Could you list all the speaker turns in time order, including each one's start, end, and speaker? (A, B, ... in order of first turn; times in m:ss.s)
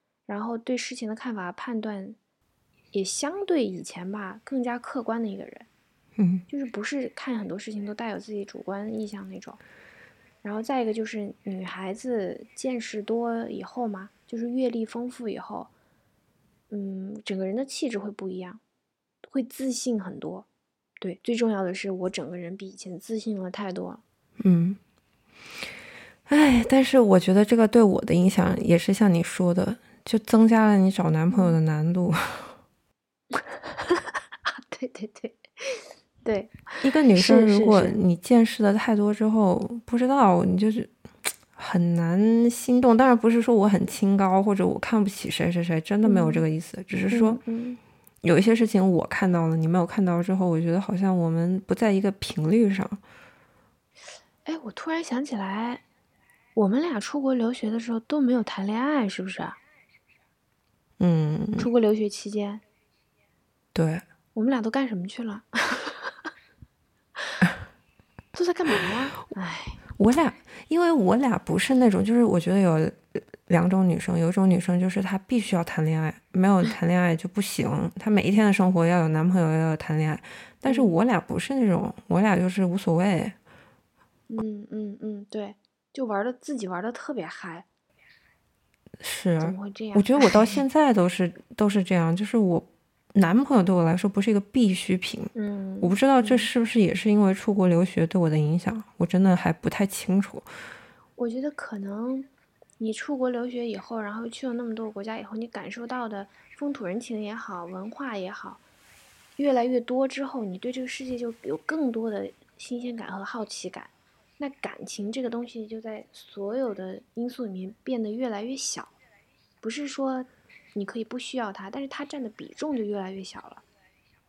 0:00.3-0:02.2 A
0:02.9-0:05.7 A
0:06.2-0:06.5 B
0:06.5-0:09.6 A
0:10.4-0:15.7 A
0:16.7-0:18.6 A
0:19.2-0:20.5 A
0:21.0-0:24.0 A
0:24.4-0:24.8 B
0:26.3-0:32.6 B
0:31.3-0:31.6 A
0:33.3-0:38.0 A
0:36.8-0:47.4 B
0:46.0-0:46.4 A
0:47.1-0:47.8 A
0:48.2-0:53.0 B
0:54.4-0:55.8 A
0:56.6-0:59.6 A
1:01.0-1:01.7 B
1:01.6-1:02.6 A
1:03.7-1:04.0 B
1:04.4-1:06.3 A
1:08.3-1:09.8 A
1:09.9-1:23.4 B
1:24.3-1:27.7 A
1:29.0-1:40.5 B
1:29.4-1:30.6 A
1:35.4-1:36.5 A
1:41.2-1:48.6 A
1:49.4-1:58.9 A
1:59.6-2:03.6 A